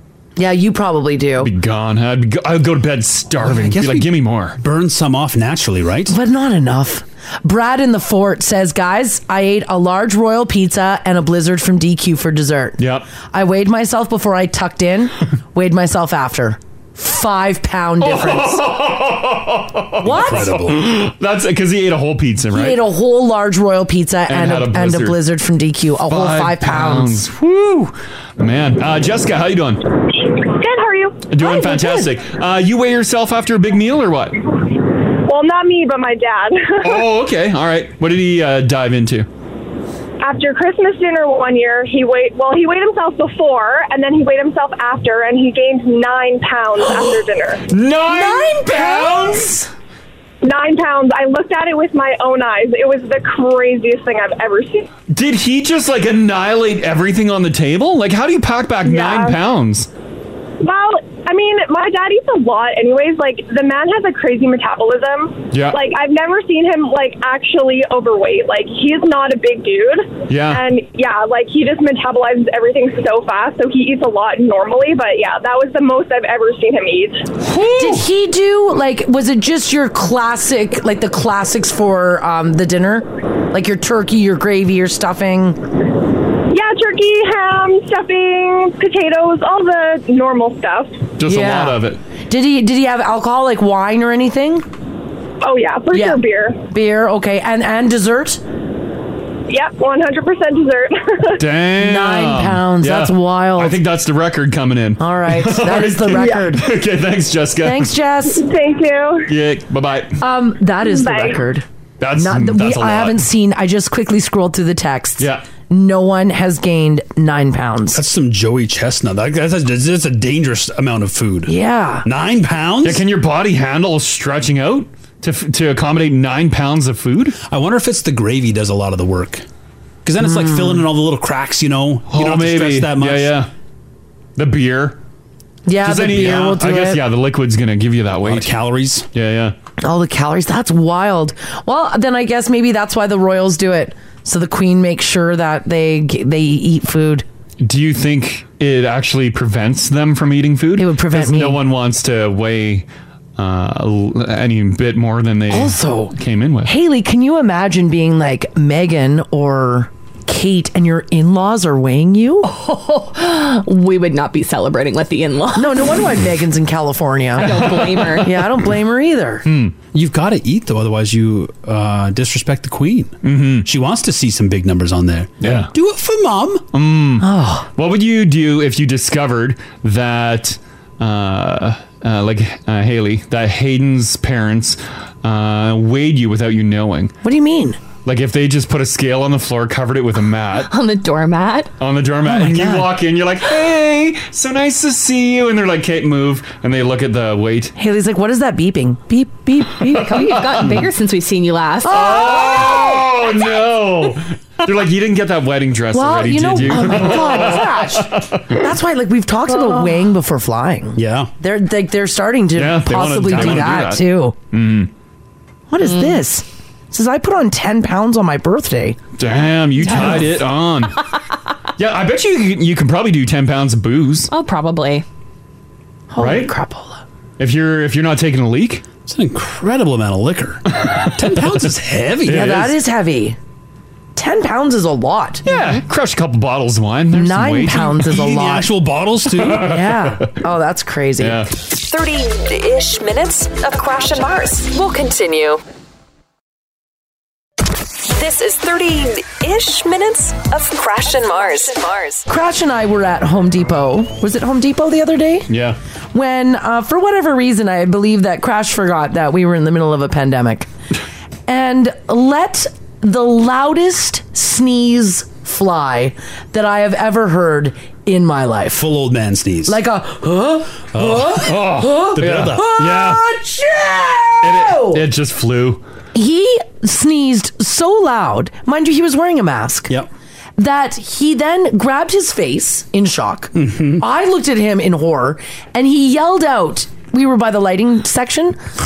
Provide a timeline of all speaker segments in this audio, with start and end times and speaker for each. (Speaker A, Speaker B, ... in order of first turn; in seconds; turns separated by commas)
Speaker A: 0.4-1.5, Speaker B: 1.4-4.6, Speaker C: 3.4-6.2, Speaker A: 6.1-18.6, Speaker B: 12.8-13.1, Speaker B: 18.0-22.8, Speaker C: 20.0-20.9, Speaker A: 20.0-20.5, Speaker A: 22.5-27.2, Speaker B: 24.3-25.2, Speaker B: 26.1-29.9, Speaker D: 30.4-31.3, Speaker B: 31.3-34.4, Speaker A: 31.4-32.1, Speaker D: 35.2-37.1, Speaker B: 36.8-39.3, Speaker D: 40.2-47.6, Speaker B: 47.7-49.5, Speaker A: 48.1-49.7, Speaker D: 50.4-54.9, Speaker B: 55.1-59.9, Speaker D: 58.8-59.4, Speaker D: 60.6-77.3, Speaker B: 65.5-65.8, Speaker B: 70.3-70.7, Speaker B: 77.4-78.1, Speaker A: 77.5-85.6, Speaker D: 86.5-91.0, Speaker B: 91.2-92.0, Speaker A: 91.2-94.7, Speaker D: 95.4-96.6, Speaker A: 95.9-98.4, Speaker D: 99.5-101.4, Speaker B: 101.4-107.9, Speaker A: 101.8-103.8, Speaker A: 105.0-106.7, Speaker A: 107.6-108.5, Speaker D: 108.3-109.3, Speaker B: 109.3-110.2, Speaker A: 110.2-111.7, Speaker D: 110.8-111.4, Speaker B: 112.0-113.2, Speaker A: 112.2-118.0, Speaker B: 115.2-115.4, Speaker C: 117.9-121.5, Speaker A: 121.5-122.1, Speaker C: 122.0-123.0, Speaker B: 122.8-127.4, Speaker C: 127.5-129.4, Speaker C: 130.0-133.4, Speaker A: 130.2-130.8, Speaker B: 132.1-133.5, Speaker B: 134.4-135.0, Speaker A: 135.7-137.0, Speaker B: 135.8-138.5, Speaker C: 138.2-139.1, Speaker B: 139.1-139.6, Speaker A: 139.8-147.2, Speaker B: 147.6-156.7, Speaker A: 150.8-151.6, Speaker A: 155.5-156.1, Speaker A: 156.7-162.5, Speaker E: 162.4-165.9, Speaker A: 165.6-167.6, Speaker E: 167.4-168.5, Speaker B: 167.5-168.2, Speaker A: 168.2-169.4, Speaker B: 169.5-169.7, Speaker C: 169.9-176.7, Speaker B: 173.2-173.7, Speaker B: 175.4-175.7, Speaker B: 176.7-187.1, Speaker A: 177.2-177.7, Speaker A: 187.2-187.8, Speaker B: 188.1-190.7, Speaker E: 190.6-191.7, Speaker B: 191.8-197.7, Speaker A: 192.3-192.9, Speaker A: 197.8-200.3, Speaker E: 199.9-202.2, Speaker B: 199.9-200.9, Speaker A: 201.8-203.1, Speaker B: 201.9-208.5, Speaker A: 205.9-214.3, Speaker C: 210.9-211.3, Speaker B: 212.6-214.9, Speaker A: 215.7-219.0, Speaker E: 215.8-216.2, Speaker B: 219.2-221.0, Speaker B: 221.8-224.3, Speaker E: 224.3-225.1, Speaker A: 226.1-227.0, Speaker B: 226.2-226.5, Speaker B: 227.4-228.8, Speaker C: 229.1-232.7, Speaker B: 230.7-231.2, Speaker A: 232.3-233.4, Speaker B: 232.3-232.7, Speaker A: 234.2-235.4, Speaker B: 235.5-238.1, Speaker E: 235.5-235.8, Speaker A: 237.1-238.7, Speaker C: 237.9-239.8, Speaker B: 239.4-240.3, Speaker A: 239.6-241.4, Speaker B: 241.2-241.5, Speaker F: 241.7-245.6, Speaker F: 248.1-252.3, Speaker A: 252.3-255.5, Speaker B: 255.5-255.8, Speaker A: 256.1-260.7, Speaker A: 261.5-268.9, Speaker C: 268.7-269.8, Speaker A: 269.7-275.1, Speaker C: 270.9-272.7, Speaker B: 271.4-273.2, Speaker B: 274.4-275.8, Speaker A: 276.1-279.9, Speaker A: 280.6-288.6, Speaker C: 283.6-284.0